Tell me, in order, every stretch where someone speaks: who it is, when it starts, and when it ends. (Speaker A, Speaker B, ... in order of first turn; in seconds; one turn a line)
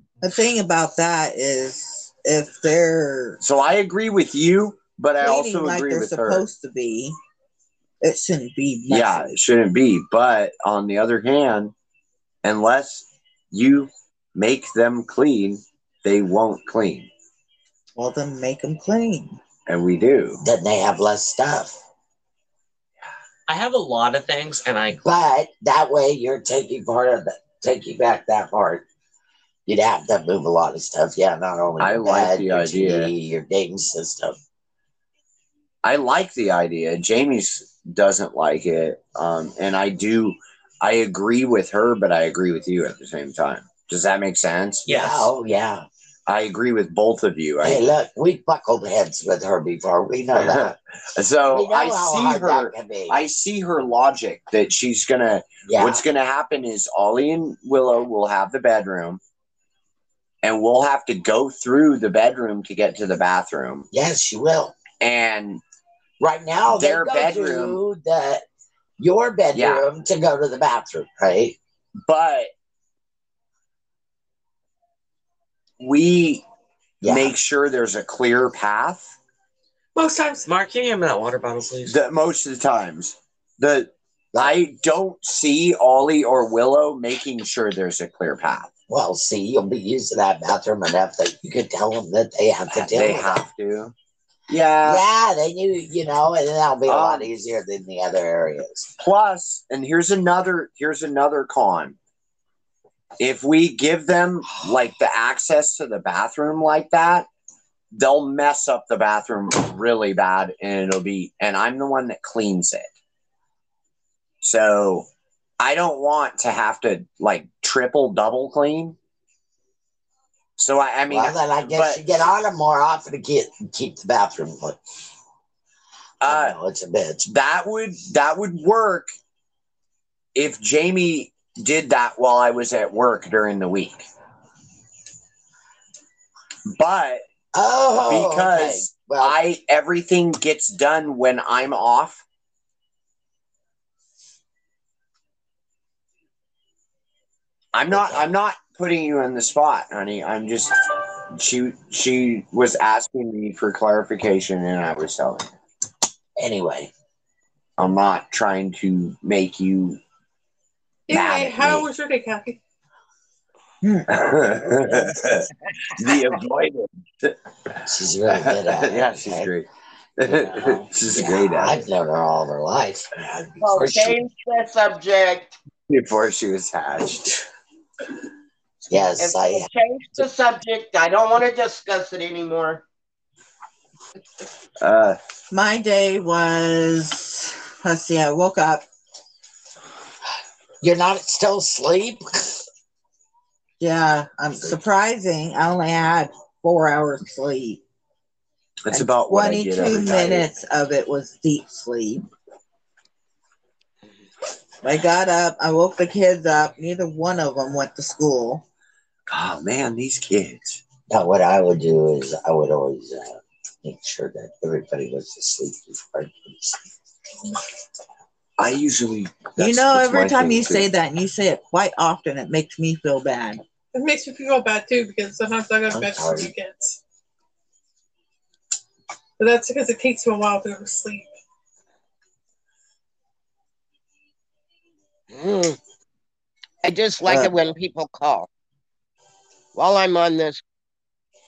Speaker A: 0.2-3.4
Speaker B: 3.4-6.5
Speaker A: 5.2-7.2
Speaker A: 8.0-9.3
Speaker B: 8.9-11.7
Speaker B: 12.4-17.1
Speaker A: 18.0-19.4
Speaker B: 19.7-20.4
Speaker C: 20.4-21.8
Speaker D: 23.5-25.0
Speaker C: 25.0-28.9
Speaker C: 29.7-34.4
Speaker B: 31.8-33.1
Speaker B: 35.8-44.9
Speaker D: 44.9-45.3
Speaker C: 44.9-45.9
Speaker B: 46.3-47.9
Speaker C: 47.6-50.8
Speaker B: 50.4-59.2
Speaker C: 51.5-53.2
Speaker C: 55.7-56.0
Speaker B: 60.4-63.9
Speaker C: 63.9-64.8
Speaker B: 65.0-65.6
Speaker C: 66.2-68.5
Speaker B: 66.7-67.8
Speaker C: 69.0-71.6
Speaker B: 69.5-69.9
Speaker B: 72.1-72.5
Speaker B: 75.8-76.4
Speaker C: 77.0-77.4
Speaker B: 77.0-79.1
Speaker E: 80.0-80.5
Speaker D: 80.5-82.0
Speaker B: 81.9-88.7
Speaker C: 88.9-93.5
Speaker B: 92.7-93.9
Speaker B: 94.5-95.0
Speaker C: 94.8-98.9
Speaker B: 96.9-97.3
Speaker B: 99.0-102.0
Speaker B: 103.2-107.3
Speaker B: 107.9-112.9
Speaker B: 114.4-115.1
Speaker B: 115.6-119.0
Speaker B: 120.6-122.0
Speaker C: 121.1-124.8
Speaker B: 126.2-126.5
Speaker C: 126.2-127.3
Speaker B: 127.3-129.1
Speaker B: 130.3-134.1
Speaker B: 136.7-137.2
Speaker C: 137.5-139.4
Speaker B: 138.1-142.2
Speaker B: 147.7-150.8
Speaker C: 147.9-148.3
Speaker B: 151.3-155.5
Speaker C: 156.4-156.9
Speaker B: 157.8-160.0
Speaker E: 161.1-162.6
Speaker C: 161.1-161.9
Speaker A: 163.8-164.1
Speaker B: 164.1-167.4
Speaker C: 167.8-169.5
Speaker B: 168.3-171.9
Speaker C: 170.3-174.2
Speaker F: 173.6-175.6
Speaker B: 175.9-177.4
Speaker C: 178.9-179.7
Speaker F: 179.2-182.8
Speaker B: 184.8-185.2
Speaker A: 185.5-188.9
Speaker C: 190.8-192.6
Speaker A: 193.8-197.8
Speaker B: 198.8-200.5
Speaker A: 198.9-202.2
Speaker A: 204.8-208.6
Speaker B: 209.3-210.8
Speaker C: 211.1-216.8
Speaker B: 218.6-220.9
Speaker A: 219.6-223.6
Speaker E: 223.9-227.0
Speaker C: 225.9-226.5
Speaker E: 229.4-231.3
Speaker F: 235.3-235.8
Speaker F: 236.8-238.5
Speaker A: 237.3-237.5
Speaker F: 239.7-240.6